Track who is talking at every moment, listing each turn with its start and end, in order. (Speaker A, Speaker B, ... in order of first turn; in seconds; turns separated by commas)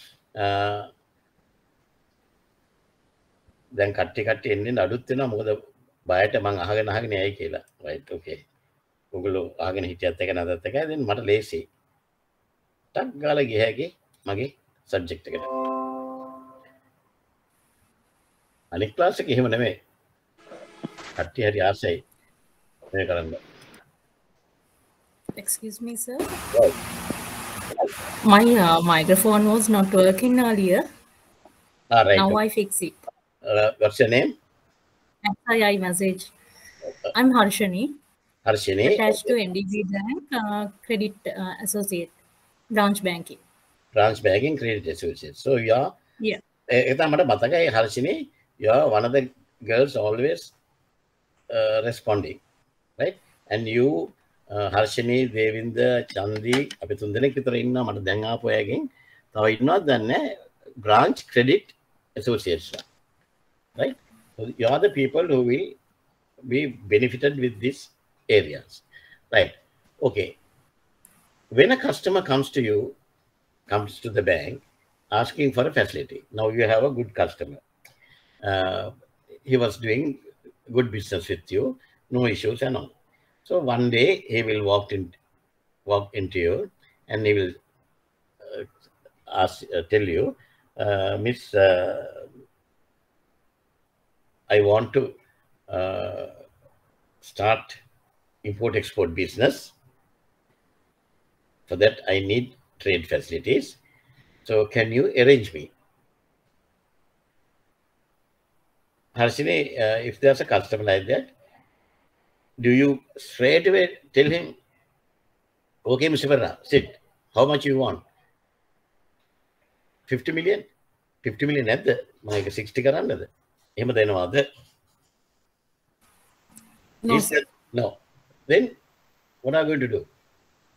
Speaker A: 0.4-0.9, Speaker A: 3.8-8.4, Speaker A: 9.1-11.7, Speaker A: 12.9-15.5, Speaker A: 18.7-19.8, Speaker A: 21.2-22.0, Speaker A: 22.9-23.4, Speaker B: 25.4-26.4, Speaker A: 26.5-26.8, Speaker B: 28.2-30.9, Speaker A: 31.9-32.4, Speaker B: 32.1-33.0, Speaker A: 33.4-34.4, Speaker B: 35.2-36.3, Speaker B: 37.1-38.0, Speaker A: 38.5-39.3, Speaker B: 38.9-42.2, Speaker B: 42.7-43.4, Speaker A: 44.0-45.9, Speaker A: 46.7-50.5, Speaker A: 51.5-52.4, Speaker A: 53.0-60.3, Speaker A: 60.8-62.8, Speaker A: 63.8-65.8, Speaker A: 66.5-70.3, Speaker A: 71.5-73.0, Speaker A: 73.7-77.6, Speaker A: 78.4-78.9, Speaker A: 79.5-82.9, Speaker A: 83.5-85.2, Speaker A: 85.9-87.6, Speaker A: 89.3-92.3, Speaker A: 94.5-95.2, Speaker A: 95.7-96.3, Speaker A: 97.2-97.8, Speaker A: 98.4-99.7, Speaker A: 101.7-103.8, Speaker A: 104.5-105.7, Speaker A: 109.2-111.3, Speaker A: 112.6-114.5, Speaker A: 115.9-118.0, Speaker A: 120.1-120.7, Speaker A: 121.2-124.5, Speaker A: 127.1-128.0, Speaker A: 128.5-128.8, Speaker A: 129.4-130.1